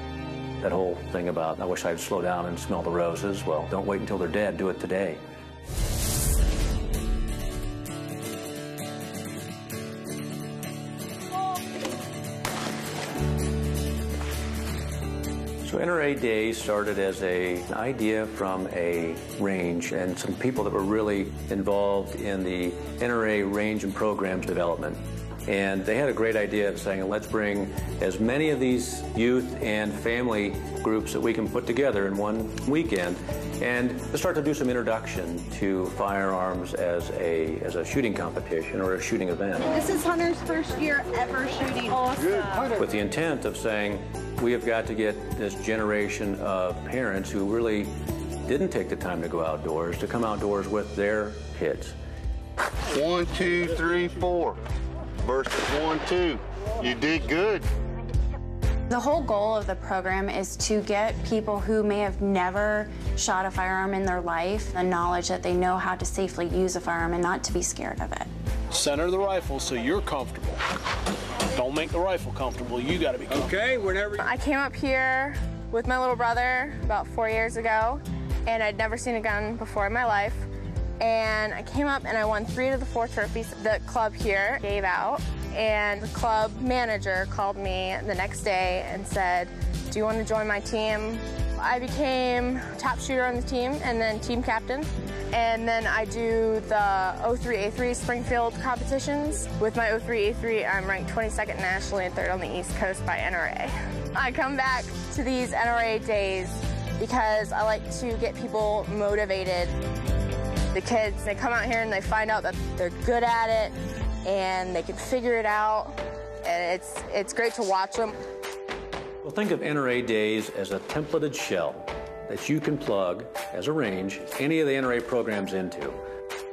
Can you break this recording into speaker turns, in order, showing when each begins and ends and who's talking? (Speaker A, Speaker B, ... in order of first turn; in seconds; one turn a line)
Speaker A: 0.6-5.2
Speaker A: 15.6-39.7
Speaker B: 39.7-42.6
Speaker A: 42.7-52.0
Speaker C: 52.9-54.6
Speaker C: 55.2-57.6
Speaker D: 58.9-68.3
Speaker E: 68.7-70.6
Speaker E: 71.5-74.2
Speaker F: 74.2-80.5
Speaker F: 81.0-109.7
Speaker F: 110.7-118.1
Speaker A: 119.2-126.0